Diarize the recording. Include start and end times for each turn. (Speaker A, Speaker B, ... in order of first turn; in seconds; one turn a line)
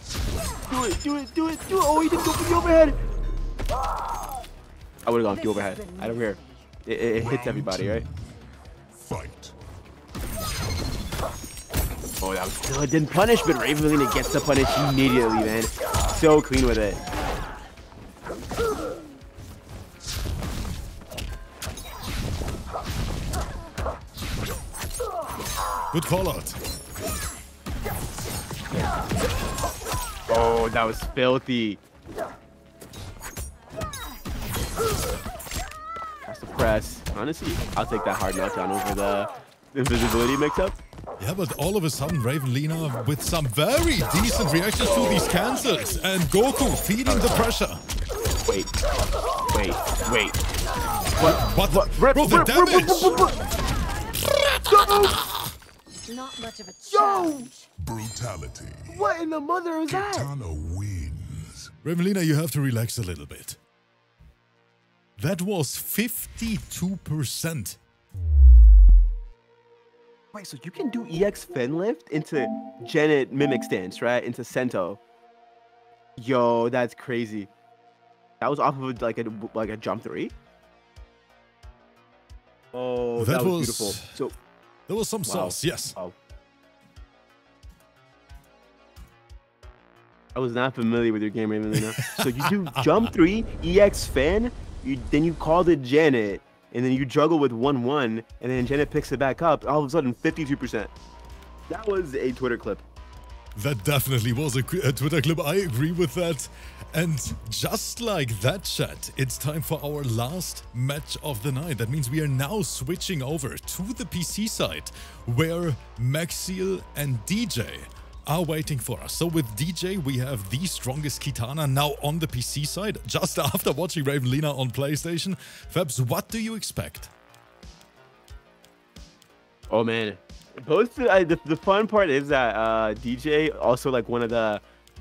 Speaker A: 0.7-3.0
Speaker A: 5.0-8.0
Speaker B: 5.3-6.6
Speaker C: 7.2-8.3
Speaker C: 9.0-9.5
Speaker A: 12.2-17.0
Speaker D: 25.9-26.6
Speaker A: 30.3-31.8
Speaker A: 36.3-40.8
Speaker D: 41.2-47.8
Speaker A: 47.0-47.5
Speaker A: 48.5-48.7
Speaker A: 49.5-50.4
Speaker A: 51.1-53.4
Speaker D: 51.2-53.3
Speaker A: 54.6-55.2
Speaker B: 56.1-57.5
Speaker A: 56.9-57.5
Speaker C: 57.8-59.1
Speaker A: 58.9-60.3
Speaker C: 59.9-61.7
Speaker D: 61.8-63.6
Speaker D: 65.2-67.8
Speaker A: 70.3-75.0
Speaker A: 76.2-77.5
Speaker A: 78.4-80.3
Speaker A: 82.7-84.3
Speaker D: 83.2-84.1
Speaker D: 84.9-86.0
Speaker A: 85.2-86.1
Speaker A: 90.3-100.9
Speaker D: 91.7-93.1
Speaker A: 101.7-102.8
Speaker D: 103.5-127.1
Speaker A: 129.7-134.6